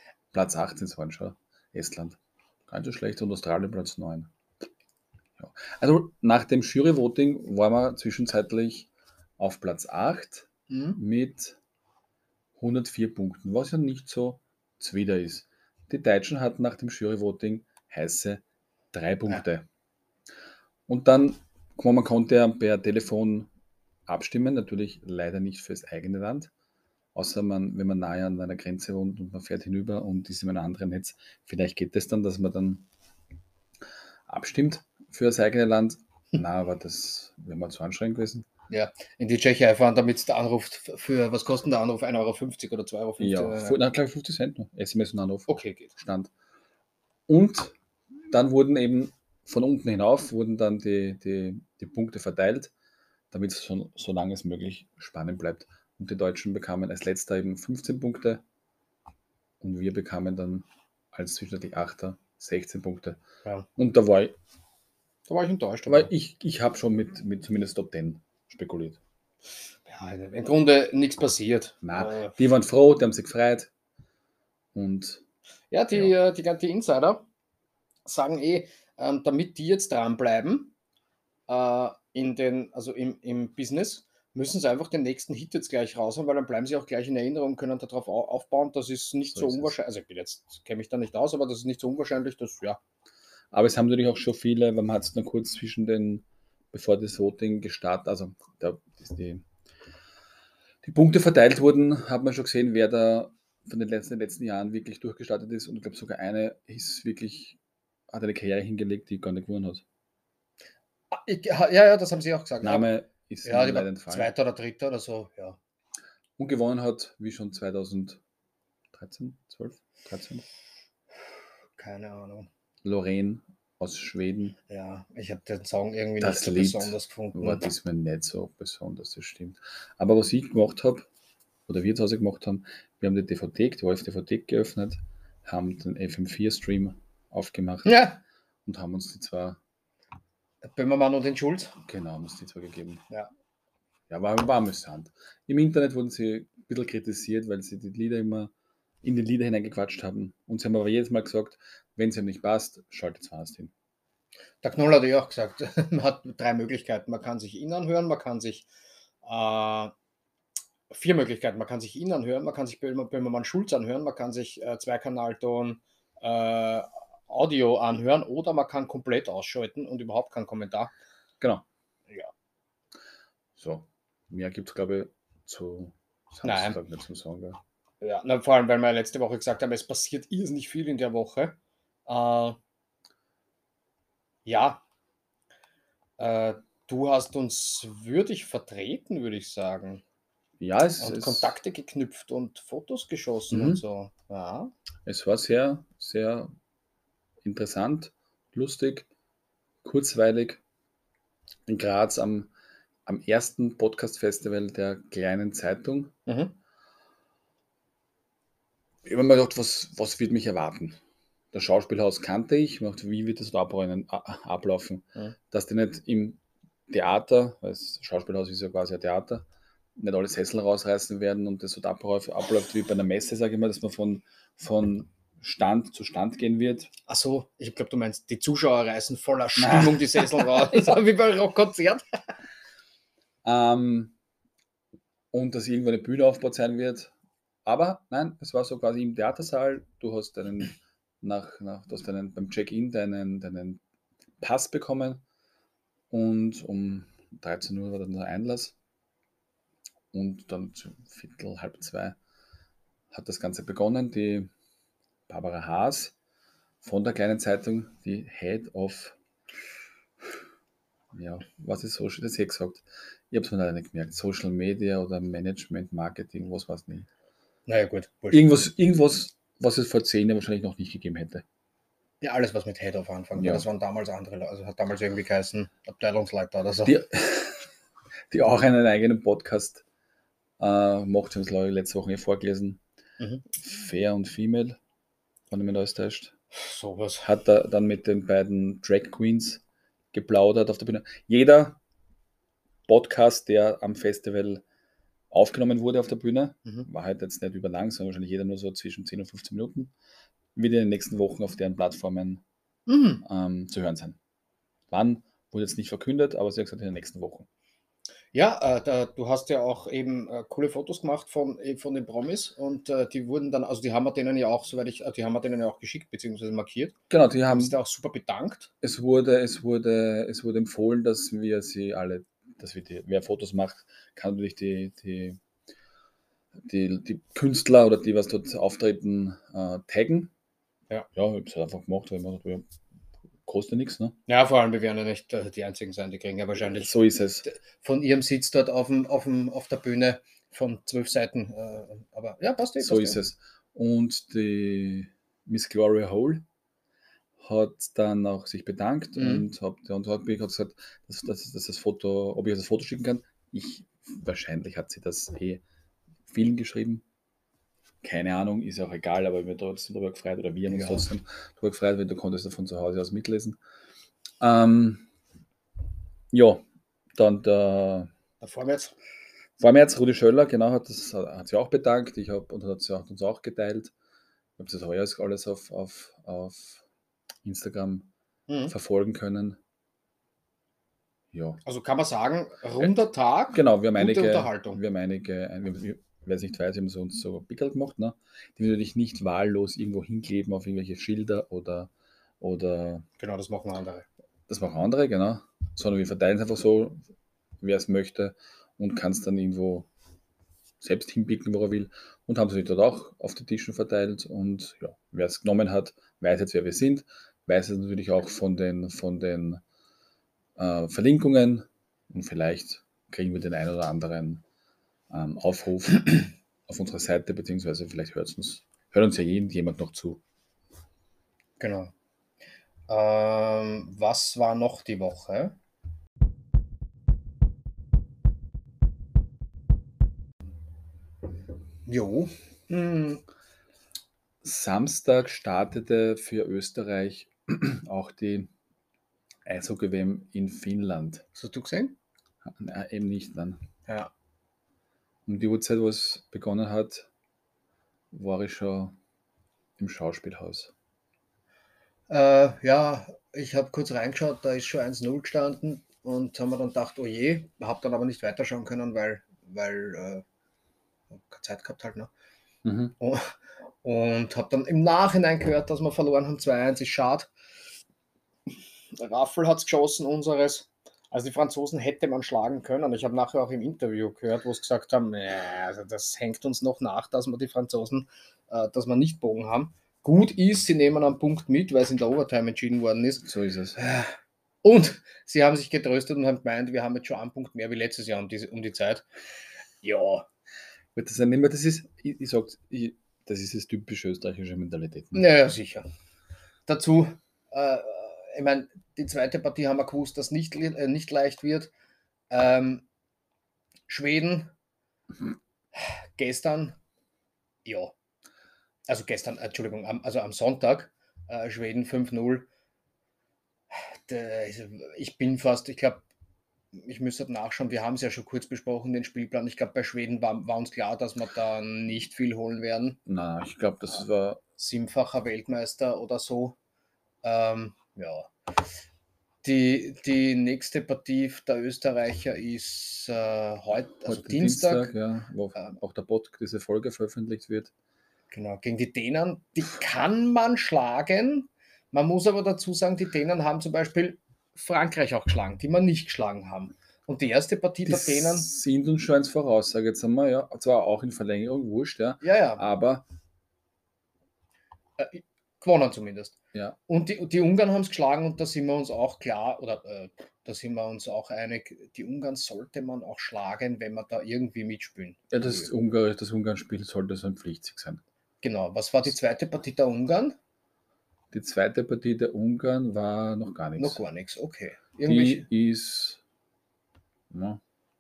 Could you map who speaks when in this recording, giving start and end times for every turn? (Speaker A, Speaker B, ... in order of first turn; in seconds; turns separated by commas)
Speaker A: 0.3-4.3, Speaker A: 5.4-11.6, Speaker B: 10.7-11.0, Speaker A: 12.6-19.7, Speaker A: 20.9-23.5, Speaker A: 24.1-26.5, Speaker A: 27.1-32.9, Speaker A: 34.3-38.5, Speaker B: 38.7-43.8, Speaker A: 43.2-46.3, Speaker B: 45.5-45.9, Speaker A: 47.3-47.8, Speaker A: 48.3-52.7, Speaker A: 53.3-58.4, Speaker A: 59.6-63.2, Speaker A: 63.8-64.4, Speaker B: 65.3-66.1, Speaker A: 65.9-69.0, Speaker B: 69.9-72.3, Speaker A: 71.8-73.7, Speaker A: 74.7-75.2, Speaker B: 75.7-77.2, Speaker B: 78.1-80.7, Speaker B: 81.5-92.8, Speaker A: 89.3-89.7, Speaker A: 93.5-99.5, Speaker A: 100.8-107.6, Speaker A: 108.1-109.8, Speaker B: 111.1-112.9, Speaker A: 112.6-114.3, Speaker B: 113.5-115.6, Speaker A: 116.4-118.2, Speaker A: 118.9-120.5, Speaker B: 121.8-122.5, Speaker A: 122.8-124.6, Speaker B: 124.7-127.6, Speaker A: 126.2-131.1, Speaker A: 131.7-138.0, Speaker B: 137.8-138.2, Speaker A: 138.7-139.6, Speaker B: 140.6-141.8, Speaker A: 141.8-143.0, Speaker A: 144.1-148.5, Speaker A: 149.0-153.7, Speaker B: 154.6-158.7, Speaker B: 159.2-159.9, Speaker B: 160.9-170.9, Speaker A: 173.6-177.6, Speaker B: 176.4-176.8, Speaker B: 178.0-182.6, Speaker B: 184.5-184.8, Speaker B: 186.2-190.0, Speaker A: 190.6-191.6, Speaker B: 191.0-194.7, Speaker A: 193.5-193.8, Speaker A: 195.1-196.5, Speaker A: 197.4-199.1, Speaker A: 199.8-200.6, Speaker A: 201.7-202.5, Speaker A: 203.1-206.1, Speaker B: 206.3-206.6, Speaker A: 209.1-211.0, Speaker A: 211.5-219.4, Speaker A: 220.0-226.9, Speaker B: 227.1-232.0, Speaker A: 229.6-230.5, Speaker A: 233.4-234.1, Speaker A: 235.3-237.1, Speaker A: 237.7-243.8, Speaker A: 244.4-245.2, Speaker A: 246.1-248.7, Speaker A: 250.1-252.2, Speaker A: 253.1-254.5, Speaker A: 255.3-256.1, Speaker A: 256.8-259.2, Speaker A: 261.1-267.1, Speaker B: 267.7-268.5, Speaker A: 268.3-271.4, Speaker B: 272.2-277.0, Speaker A: 273.4-273.6, Speaker A: 276.9-277.6, Speaker A: 278.3-279.8, Speaker A: 280.6-282.8, Speaker A: 283.6-284.8, Speaker A: 285.5-286.3, Speaker B: 286.5-287.2, Speaker A: 287.2-289.6, Speaker A: 290.1-291.8, Speaker A: 292.9-294.6, Speaker A: 295.3-299.9, Speaker A: 300.6-302.4, Speaker B: 302.9-303.2, Speaker A: 303.2-304.2, Speaker A: 304.9-307.5, Speaker B: 308.3-317.0, Speaker A: 317.1-317.8, Speaker B: 317.5-318.7, Speaker A: 318.8-325.4, Speaker A: 326.6-330.3, Speaker A: 331.2-332.6, Speaker A: 333.5-334.2, Speaker B: 334.3-343.2, Speaker A: 336.8-337.4, Speaker A: 342.8-346.4, Speaker A: 347.4-355.6, Speaker B: 349.2-349.5, Speaker A: 356.3-357.0, Speaker A: 358.0-363.6, Speaker B: 360.7-361.1, Speaker A: 364.4-365.1, Speaker A: 366.3-366.6, Speaker A: 367.2-368.1, Speaker B: 368.4-368.9, Speaker A: 369.6-373.9, Speaker A: 374.6-376.8, Speaker A: 377.4-378.1, Speaker B: 378.5-378.7, Speaker A: 378.7-379.6, Speaker A: 381.3-381.6, Speaker B: 381.6-384.8, Speaker A: 383.5-393.1, Speaker B: 393.2-394.1, Speaker A: 394.5-397.0, Speaker A: 397.6-399.9, Speaker A: 400.8-409.6, Speaker A: 410.6-414.4, Speaker A: 415.1-420.2, Speaker B: 421.6-421.9, Speaker B: 422.9-425.6, Speaker B: 431.9-433.2, Speaker A: 434.4-438.5, Speaker A: 439.4-441.2, Speaker B: 441.4-441.9, Speaker A: 442.4-443.6, Speaker A: 445.3-447.1, Speaker A: 448.1-449.0, Speaker A: 449.8-450.7, Speaker B: 452.1-460.2, Speaker B: 461.1-462.1, Speaker A: 462.6-462.9, Speaker B: 463.0-467.3, Speaker B: 468.9-489.1, Speaker A: 483.2-483.8, Speaker B: 489.8-490.3, Speaker A: 490.9-495.3, Speaker B: 495.1-495.9, Speaker B: 496.7-501.7, Speaker B: 502.3-502.9, Speaker B: 503.9-504.5, Speaker B: 505.7-506.8, Speaker B: 507.6-507.9, Speaker B: 508.9-512.5, Speaker B: 513.7-516.0, Speaker B: 516.7-523.0, Speaker A: 523.1-524.4, Speaker B: 524.6-526.6, Speaker B: 527.2-528.3, Speaker B: 529.4-534.9, Speaker A: 534.0-537.7, Speaker B: 538.3-548.5, Speaker A: 547.9-553.0, Speaker B: 552.2-552.6, Speaker B: 555.0-565.7, Speaker A: 565.3-568.0, Speaker B: 568.4-570.4, Speaker A: 571.3-574.0, Speaker B: 573.8-575.5, Speaker A: 575.1-576.2, Speaker A: 577.3-577.6